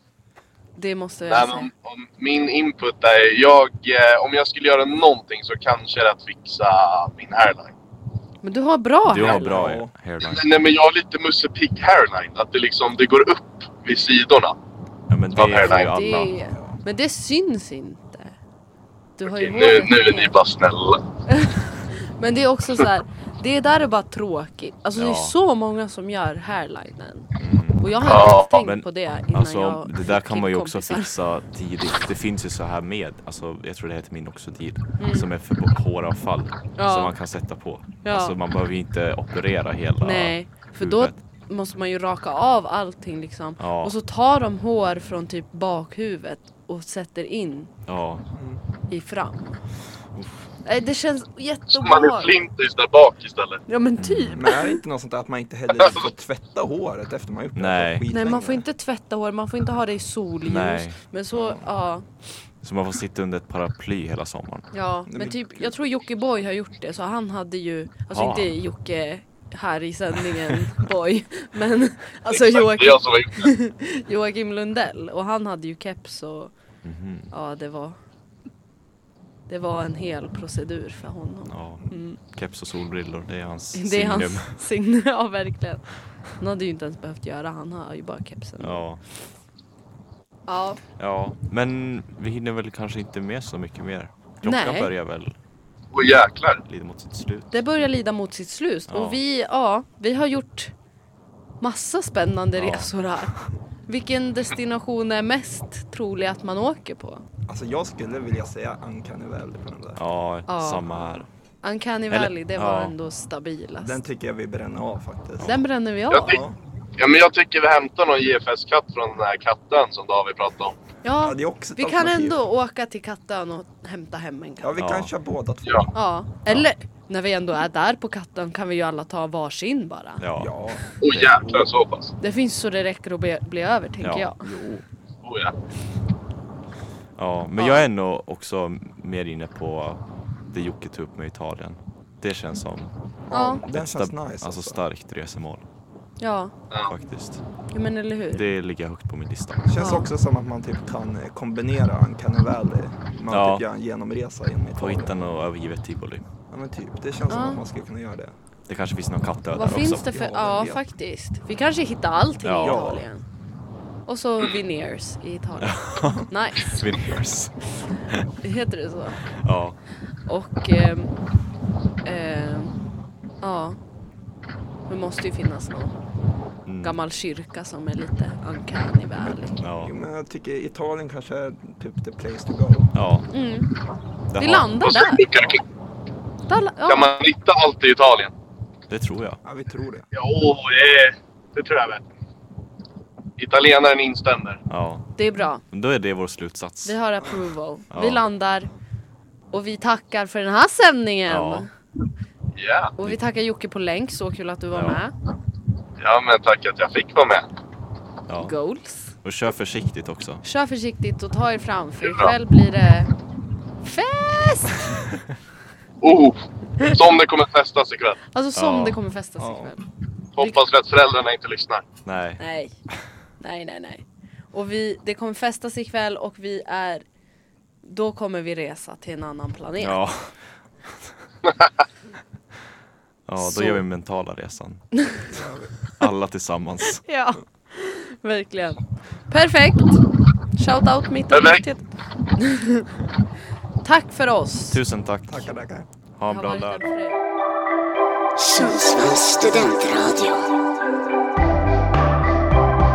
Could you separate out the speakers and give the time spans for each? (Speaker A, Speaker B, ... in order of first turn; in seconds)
Speaker A: 0.8-1.7, 8.4-9.6, 15.6-18.3, 19.2-20.3, 21.3-31.1, 35.0-35.3, 36.8-37.1, 38.0-38.3, 40.0-47.7, 48.9-49.6, 50.6-52.3, 53.7-54.8, 58.1-62.1, 64.7-76.5, 77.3-78.0, 79.5-82.2, 83.7-88.8, 90.5-90.8, 94.4-94.9, 97.5-100.7, 101.6-103.3, 103.9-107.2, 110.5-111.0, 111.6-114.0, 115.4-116.4, 121.0-124.8, 125.9-130.2, 132.2-134.4, 137.6-137.8, 143.3-143.6, 146.2-146.5, 147.7-148.4, 149.8-150.1, 157.3-157.6, 159.5-163.2, 164.1-166.8, 168.4-169.2, 170.3-171.1, 172.0-172.8, 173.4-173.8, 174.9-175.9, 176.8-179.6, 183.3-183.7, 184.4-185.2, 186.5-187.1, 195.2-195.6, 196.8-198.7, 199.5-201.7, 203.0-205.1, 208.3-209.1, 210.4-213.1, 213.8-214.8, 218.3-219.9, 222.4-222.7, 223.4-227.0, 227.8-230.0, 233.4-233.8, 237.0-240.0, 240.6-241.8, 242.3-242.9, 243.8-244.8, 246.3-247.2
Speaker B: 1.2-7.7, 10.2-14.6, 15.3-15.9, 19.2-21.0, 28.0-28.5, 51.7-53.6, 72.3-73.5, 95.9-96.6, 116.1-116.4, 117.0-120.8, 131.0-132.1, 135.2-135.5, 184.8-185.6, 186.8-188.3, 193.4-194.6, 202.5-202.9, 206.0-207.4, 212.0-212.3, 216.0-218.2, 220.3-221.8, 241.3-241.7
Speaker C: 9.1-10.5, 15.1-16.3, 24.9-25.3, 27.4-41.2, 43.6-43.9, 47.9-48.2, 50.1-50.5, 54.0-54.4, 57.5-58.0, 60.4-61.0, 62.6-64.7, 68.1-68.5, 76.8-77.3, 81.5-84.6, 88.6-89.0, 91.0-95.3, 96.7-97.6, 98.9-99.2, 102.5-102.9, 110.0-111.3, 112.1-112.9, 124.8-125.1, 130.2-130.5, 131.1-131.4, 134.0-134.3, 137.2-142.9, 143.7-145.7, 146.9-147.4, 148.3-149.7, 153.3-153.6, 154.8-156.2, 158.7-160.0, 162.4-162.8, 165.6-168.2, 169.4-169.8, 176.6-177.0, 179.6-179.9, 182.9-183.3, 184.3-184.7, 188.9-189.4, 194.7-195.1, 195.7-197.0, 197.9-198.2, 201.3-201.7, 204.7-205.0, 208.3-208.6, 209.2-210.4, 218.5-219.0, 222.0-222.4, 229.8-231.1, 233.3-234.9, 236.0-237.0, 244.7-245.5, 246.2-246.9
Speaker D: 9.2-9.9, 16.5-16.8, 48.3-48.6, 54.3-58.6, 61.3-61.6, 65.1-65.7, 107.5-110.0, 113.8-115.5, 116.2-116.5, 121.2-122.4, 124.6-125.9, 130.4-130.8, 131.4-131.6, 134.4-134.8, 143.3-144.8, 149.7-155.1, 156.5-158.3, 159.9-160.8, 162.6-163.0, 179.2-182.9, 189.4-190.1, 219.4-219.7, 235.3-235.7, 245.3-245.9
Speaker E: 190.1-192.1
Speaker F: 248.4-250.4